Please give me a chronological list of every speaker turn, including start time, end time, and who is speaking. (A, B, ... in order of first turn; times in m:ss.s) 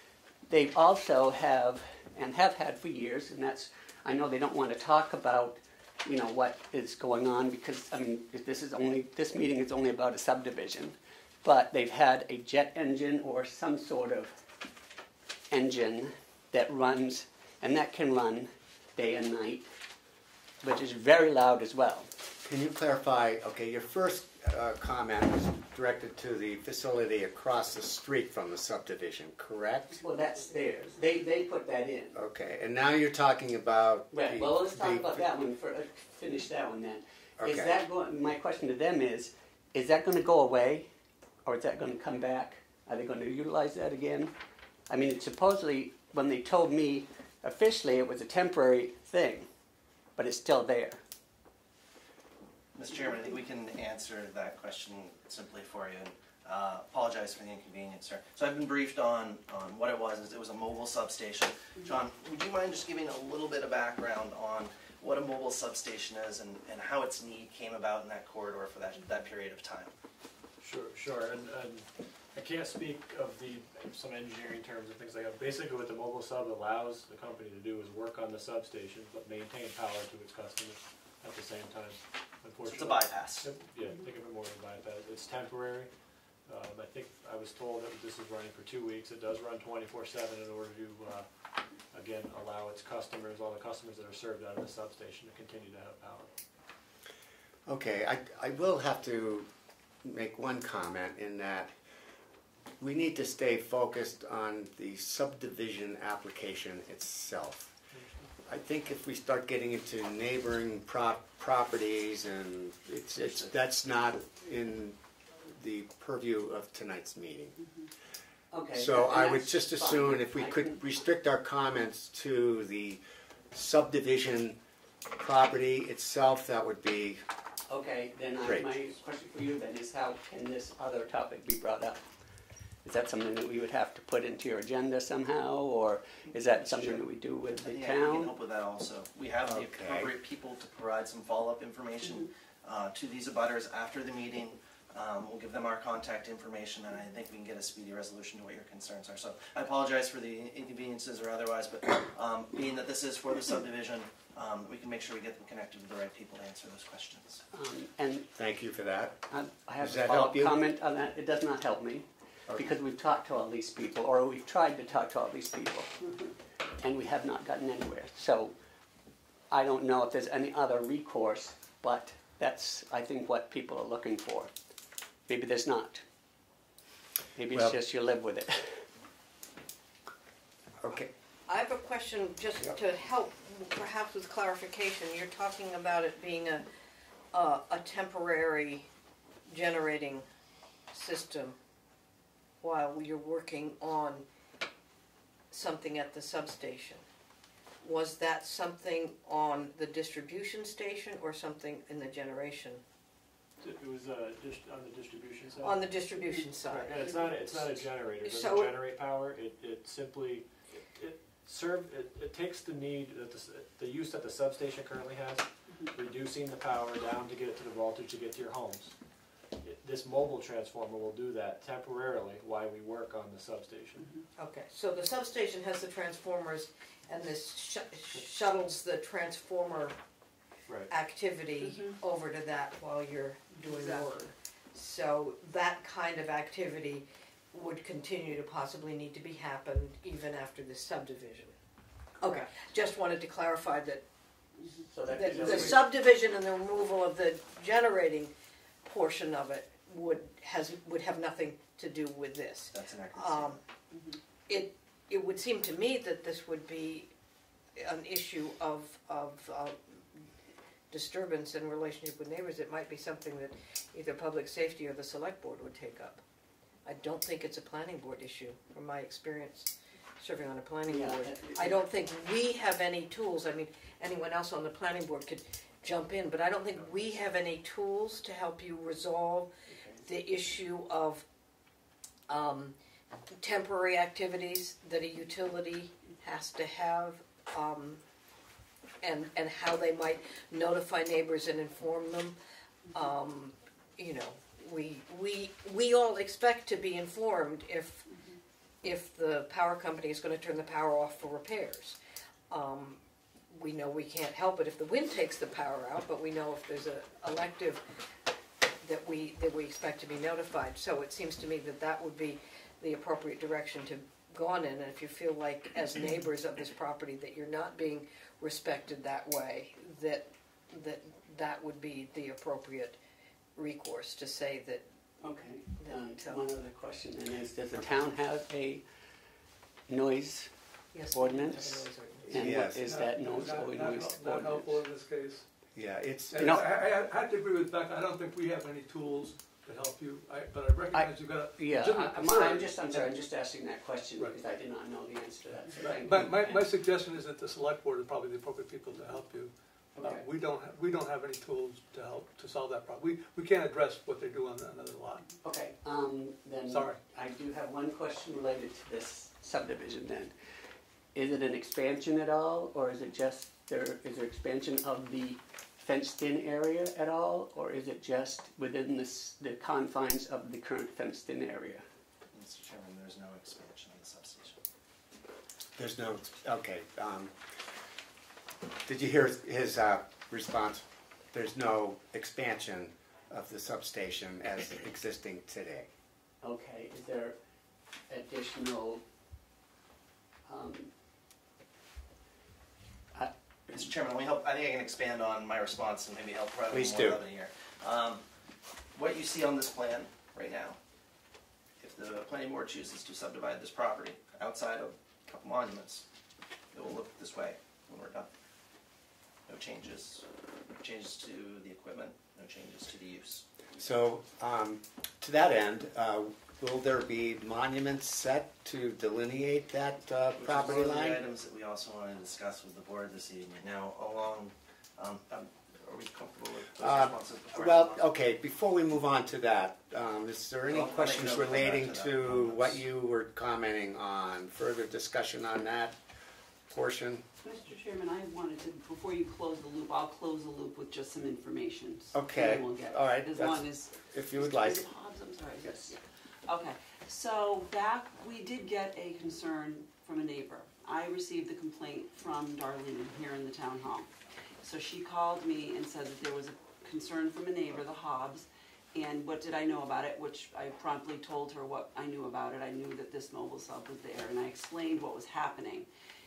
0:00.5-0:14.3 A
0:15.5-0:19.7 A
0:20.6-0:22.2 A
0:22.4-0:30.0 B
0:29.9-0:32.2 A
0:32.1-0:35.2 B
0:34.1-0:40.9 A
0:37.4-0:37.8 B
0:41.4-0:44.3 A
0:44.9-0:49.5 A
0:50.2-0:51.0 A
0:52.7-1:09.9 C
1:10.6-1:25.9 D
1:22.6-1:23.5 C
1:26.4-1:31.3 D
1:31.9-1:36.3 D
1:37.7-1:39.5 B
1:40.0-1:41.7 B
1:42.8-1:47.7 B
1:48.4-1:57.6 B
1:58.5-2:00.8 A
1:58.7-2:04.6 B
2:05.2-2:07.2 B
2:07.7-2:12.0 A
2:08.4-2:08.7 B
2:12.8-2:18.3 A
2:16.3-2:17.0 C
2:17.6-2:37.4 C
2:19.4-2:20.1 B
2:37.5-2:38.3 A
2:38.3-2:39.2 B
2:39.3-2:45.9 A
2:39.8-2:40.6 B
2:46.8-2:48.5 A
2:49.5-2:54.5 A
2:55.3-2:56.0 A
2:57.3-2:58.8 A
2:57.5-2:57.8 B
3:00.8-3:01.1 B
3:01.5-3:06.6 E
3:07.3-3:08.9 E
3:09.5-3:10.2 E
3:10.9-3:11.6 E
3:12.6-3:14.2 E
3:15.5-3:17.0 E
3:17.8-3:22.8 E
3:23.6-3:25.9 D
3:25.6-3:28.7 E
3:26.7-3:38.9 D
3:39.6-3:44.1 D
3:44.0-3:44.2 F
3:44.4-3:50.0 E
3:50.9-4:01.5 E
3:51.6-3:52.0 F
3:53.5-3:54.3 F
4:02.2-4:04.0 E
4:04.9-4:05.9 A
4:05.1-4:08.3 E
4:08.8-4:13.6 E
4:12.7-4:13.6 C
4:13.9-4:14.2 F
4:14.5-4:17.1 E
4:17.8-4:20.0 E
4:20.9-4:26.2 E
4:26.8-4:39.5 E
4:30.9-4:31.8 A
4:40.0-4:41.2 E
4:42.3-4:42.8 E
4:43.4-4:48.0 E
4:49.0-4:52.4 E
4:52.9-4:58.1 E
4:58.8-5:02.0 E
5:02.5-5:07.8 E
5:08.8-5:23.0 E
5:23.5-5:24.8 E
5:25.2-5:28.8 A
5:25.8-5:26.5 E
5:29.9-5:30.5 A
5:30.9-5:32.5 E
5:31.1-5:34.8 A
5:32.3-5:32.9 B
5:32.7-5:35.4 G
5:35.7-5:36.6 B
5:36.3-5:43.2 G
5:36.4-5:36.6 A
5:40.9-5:46.7 A
5:45.8-5:55.3 G
5:50.0-5:50.2 A
5:55.4-6:00.3 A
5:56.7-5:57.0 G
6:01.1-6:11.8 A
6:12.3-6:14.6 C
6:15.8-6:17.3 B
6:18.8-6:25.9 B
6:26.4-6:27.4 A
6:28.1-6:29.0 A
6:30.4-6:30.9 A
6:33.1-6:33.9 A
6:33.7-6:38.2 C
6:36.7-6:37.2 B
6:38.9-6:40.8 C
6:41.8-6:46.0 C
6:46.7-6:48.3 C
6:49.5-6:50.2 C
6:50.8-6:53.4 C
6:53.8-7:01.2 B
7:00.4-7:08.1 C
7:06.8-7:16.0 B
7:10.7-7:12.8 C
7:16.7-7:17.2 B
7:17.4-7:34.1 F
7:22.1-7:24.9 B
7:25.6-7:25.9 B
7:34.6-7:45.9 F